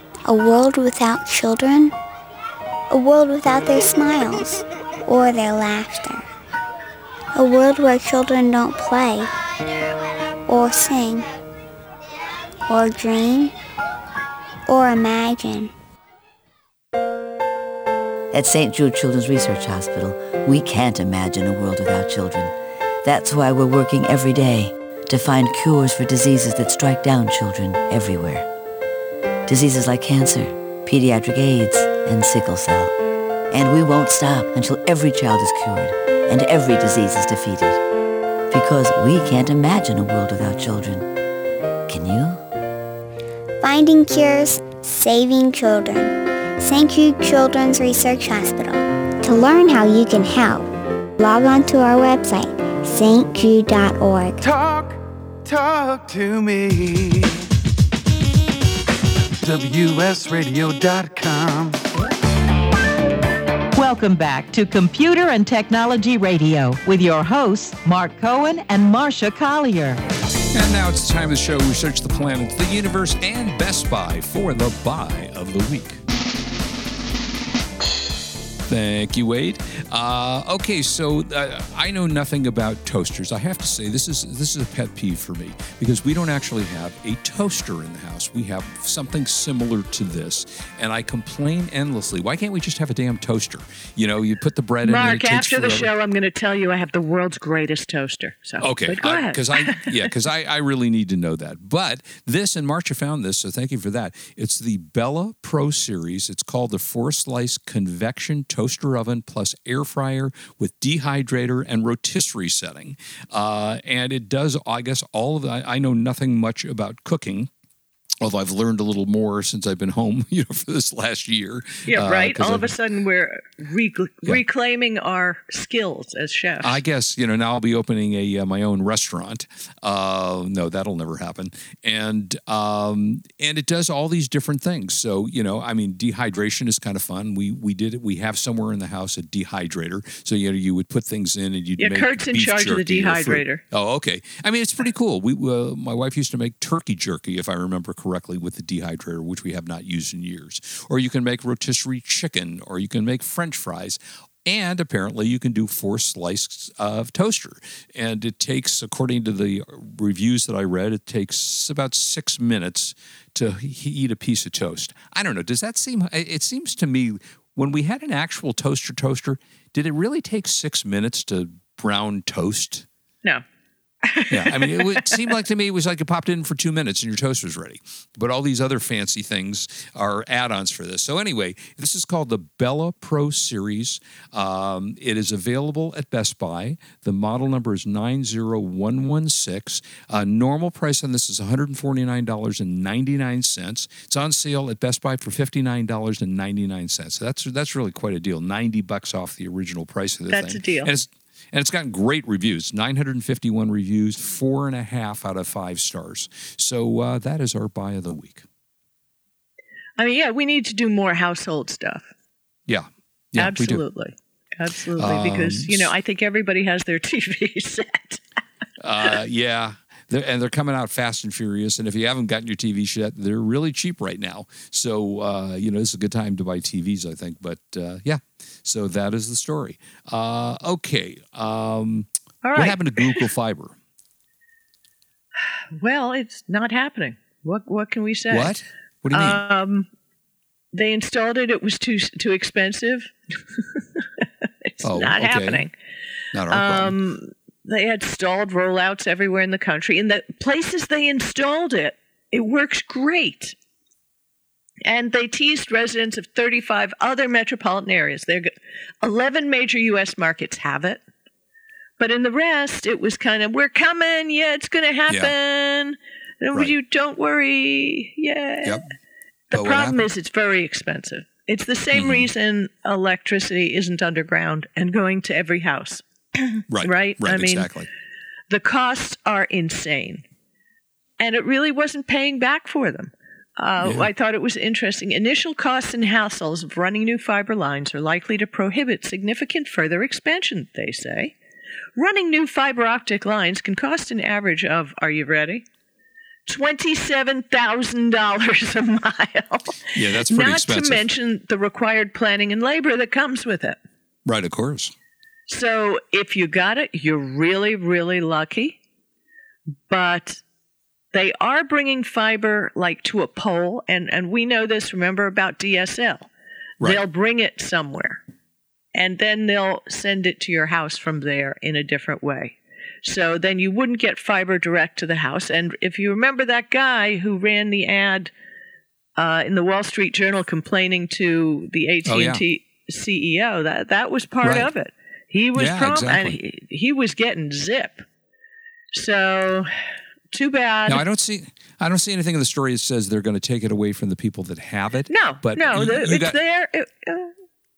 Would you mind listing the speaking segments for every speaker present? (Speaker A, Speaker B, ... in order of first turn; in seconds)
Speaker A: 0.3-1.9, 2.9-6.2, 7.3-9.3, 10.5-11.3, 12.7-13.5, 14.7-15.7, 43.6-54.4
Speaker B: 18.3-28.5, 29.5-32.9, 33.5-37.8, 38.5-41.1, 41.9-42.4
Speaker C: 54.4-57.5, 59.4-61.8
Speaker D: 63.8-70.0
Speaker E: 70.5-76.0, 78.7-95.9, 98.6-117.5, 118.2-122.7, 126.6-172.9, 174.3-208.4, 212.7-213.8, 215.0-215.9, 218.8-233.8, 238.3-239.4, 244.8-245.7, 246.3-247.0, 265.1-265.3, 269.5-270.0, 271.9-272.3, 276.7-277.9, 283.8-284.1, 299.9-301.1, 304.2-304.9, 332.1-332.4, 334.4-334.7, 335.6-336.4, 340.9-346.4
Speaker F: 94.8-99.9, 121.8-126.8, 141.8-143.6, 174.0-175.2, 200.3-200.9, 210.0-212.1, 213.4-218.2, 232.4-233.2, 235.8-238.5, 239.1-239.9, 240.7-243.1, 244.7-245.7, 246.5-253.6, 254.8-258.5, 259.0-261.0, 262.0-268.8, 269.5-277.7, 278.5-280.2, 281.2-291.4, 292.0-295.6, 296.5-303.8, 305.5-308.8, 309.9-310.4, 311.1-316.3, 316.8-318.2, 318.9-328.3, 329.2-338.1, 338.9-339.7, 340.3-341.0, 345.1-347.3